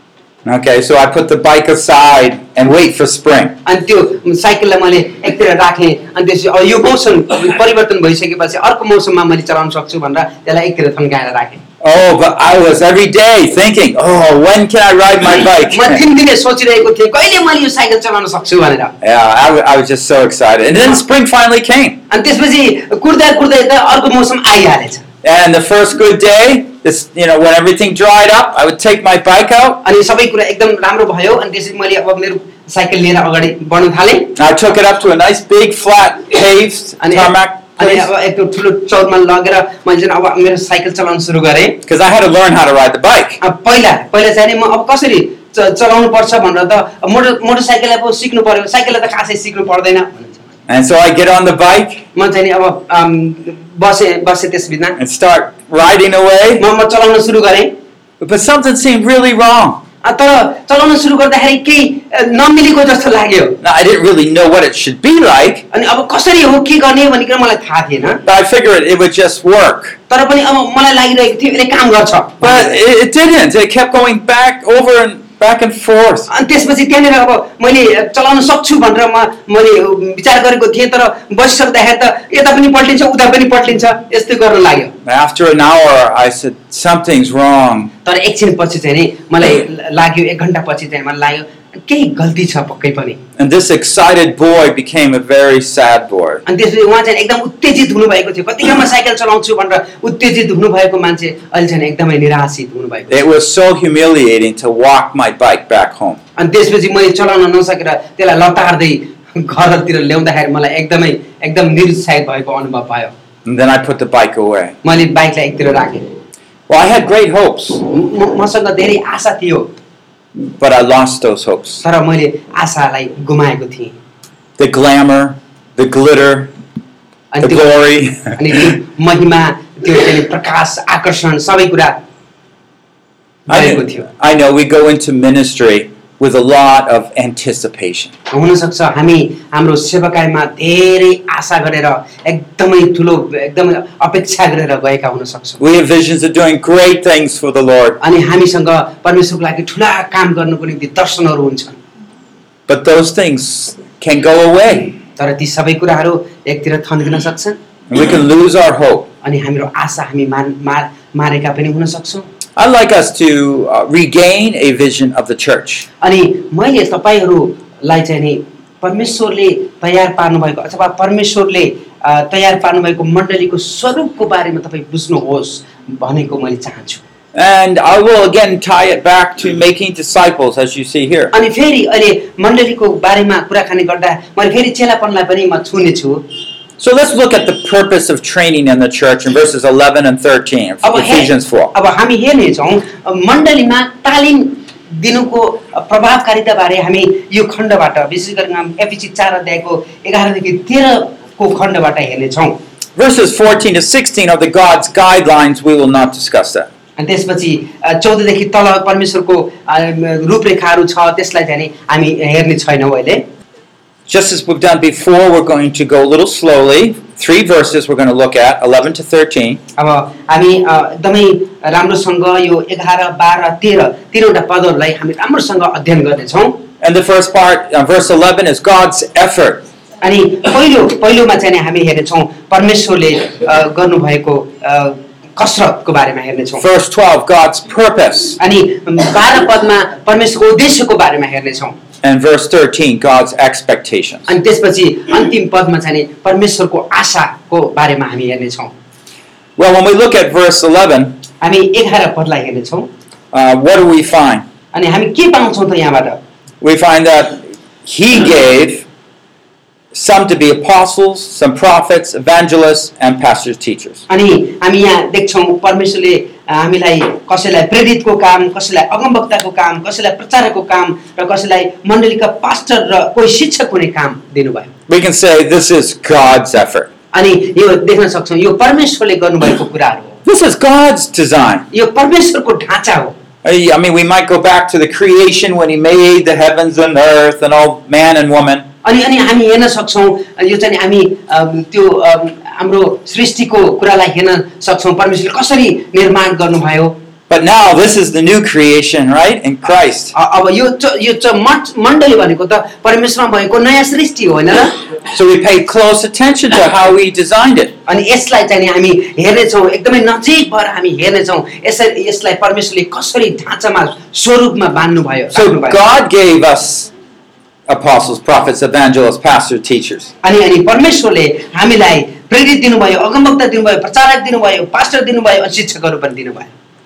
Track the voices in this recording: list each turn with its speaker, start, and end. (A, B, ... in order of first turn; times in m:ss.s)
0:00.4-0:03.6 A
0:03.6-0:11.6 B
0:11.8-0:16.0 A
0:15.7-0:18.9 B
0:19.0-0:22.0 A
0:22.1-0:25.0 B
0:25.2-0:29.8 A
0:29.8-0:34.3 B
0:34.4-0:38.1 A
0:37.0-0:41.8 B
0:41.8-0:43.4 A
0:43.4-0:50.4 B
0:50.7-0:52.0 A
0:52.1-0:55.0 B
0:55.0-0:56.6 A
0:56.6-0:57.7 B
0:58.2-0:59.8 A
1:00.0-1:03.6 B
1:03.6-1:05.6 A
1:05.7-1:08.2 B
1:08.2-1:10.0 A
1:10.1-1:12.7 B
1:12.4-1:16.3 A
1:16.3-1:24.9 B
1:25.0-1:27.9 A
1:28.0-1:33.2 B
1:33.4-1:36.4 A
1:36.4-1:43.2 B
1:43.1-1:46.2 A
1:46.4-1:53.1 B
1:53.4-1:54.8 A
1:54.8-1:56.1 B
1:56.7-1:57.8 A
1:57.9-1:59.7 B
2:00.4-2:01.8 A
2:01.8-2:04.0 B
2:04.6-2:06.5 A
2:07.3-2:07.7 B
2:07.4-2:08.4 A
2:08.3-2:12.0 B
2:13.5-2:14.0 B
2:13.5-2:18.1 A
2:18.3-2:25.6 B
2:25.6-2:28.0 A
2:28.0-2:31.8 B
2:32.7-2:34.9 A
2:35.2-2:37.6 B
2:37.9-2:39.1 A
2:39.2-2:42.2 B
2:42.6-2:45.8 A
2:46.0-2:57.0 B
2:57.3-3:01.3 A
3:01.3-3:06.2 B
3:06.8-3:11.7 A
3:10.8-3:22.6 B
3:23.0-3:26.7 A
3:27.0-3:33.2 B
3:34.1-3:39.6 A
3:39.8-3:46.6 B
3:46.8-3:49.6 A
3:50.0-3:56.6 B
3:56.6-3:58.4 A
3:58.4-4:01.8 B
4:02.0-4:04.3 A
4:04.3-4:08.7 B
4:09.6-4:11.2 A
4:11.4-4:12.9 B
4:13.3-4:14.4 A
4:14.7-4:16.2 B
4:16.6-4:18.8 A
4:19.9-4:24.0 A
4:24.1-4:34.7 B
4:34.9-4:36.9 A
4:37.1-4:40.2 B
4:40.2-4:41.6 A
4:41.7-4:43.1 B
4:43.4-4:48.7 A
4:48.8-4:57.0 B
4:57.3-5:00.1 A
5:00.1-5:04.8 B
5:05.1-5:07.7 A
5:07.9-5:15.8 B
5:15.3-5:16.9 A
5:17.7-5:20.1 A
5:20.2-5:26.5 B